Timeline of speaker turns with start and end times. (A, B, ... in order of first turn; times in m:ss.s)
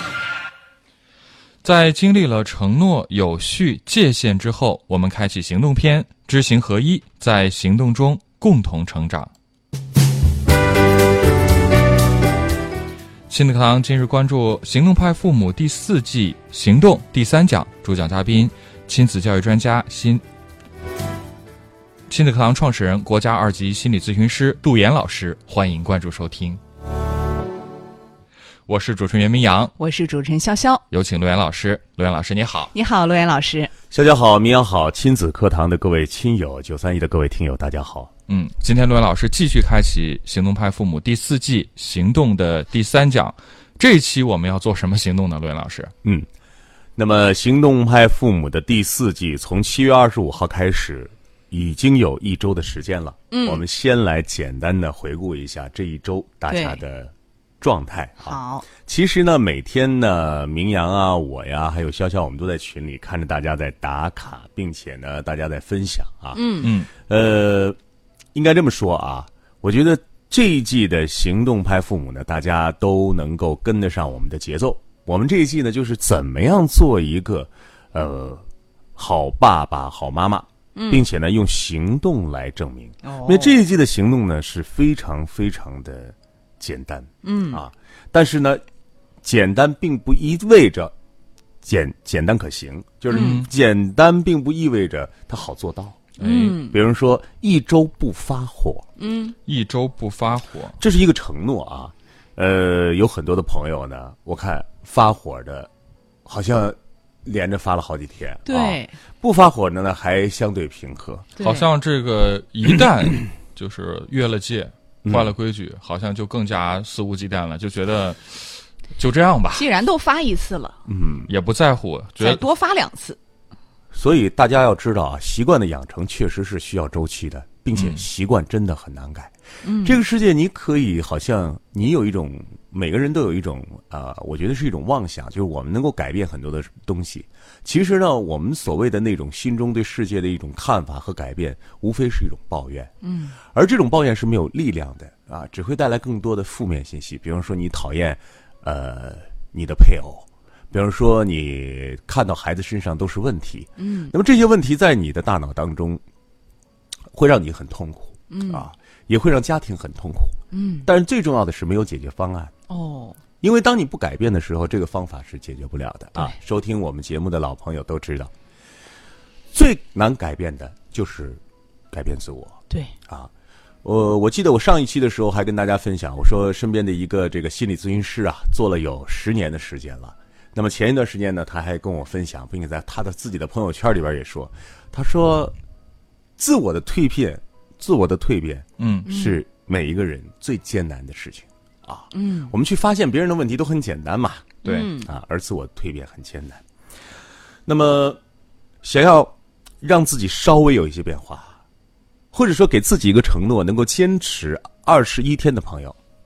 0:01.6-0:09.3 A
0:13.3-0:20.2 A
0:22.1-0:26.6 A
0:28.7-0:29.7 A
0:29.8-0:30.8 B
0:30.9-0:32.7 A
0:32.7-0:33.7 B
0:33.9-0:38.1 C
0:38.3-0:45.9 A
0:47.0-1:07.8 C
0:53.3-0:53.6 B
0:56.5-0:56.8 B
0:58.2-0:58.7 B
1:06.3-1:06.7 B
1:06.6-1:06.9 A
1:08.3-1:18.4 C
1:19.0-1:28.6 C
1:20.8-1:21.0 B
1:23.0-1:23.6 B
1:27.2-1:27.6 B
1:29.2-1:30.9 C
1:31.6-1:38.8 C
1:33.1-1:33.5 A
1:33.1-1:33.4 B
1:36.2-1:36.8 B
1:36.2-1:36.6 A
1:39.0-1:39.4 B
1:39.4-1:40.8 A
1:40.8-1:45.7 C
1:46.2-1:51.3 C
1:48.4-1:49.0 B
1:51.4-1:51.7 B
1:51.4-1:59.6 A
1:55.0-1:55.3 C
1:59.5-2:00.8 B
2:00.9-2:01.3 C
2:01.3-2:02.4 A
2:02.2-2:03.2 B
2:03.9-2:36.0 C
2:07.8-2:08.0 A
2:09.6-2:10.0 B
2:23.0-2:23.4 B
2:33.8-2:34.1 B
2:37.1-2:42.5 C
2:38.3-2:38.7 B
2:40.5-2:40.9 B
2:42.7-2:43.2 B
2:43.4-2:48.3 C
2:49.5-2:51.4 C
2:51.9-2:53.3 C
2:53.8-3:05.5 C
3:06.4-3:16.6 C
3:08.8-3:09.1 A
3:09.0-3:09.4 B
3:12.1-3:12.5 B
3:14.6-3:15.1 B
3:17.6-3:18.2 C
3:18.8-3:21.6 C
3:22.3-3:26.0 C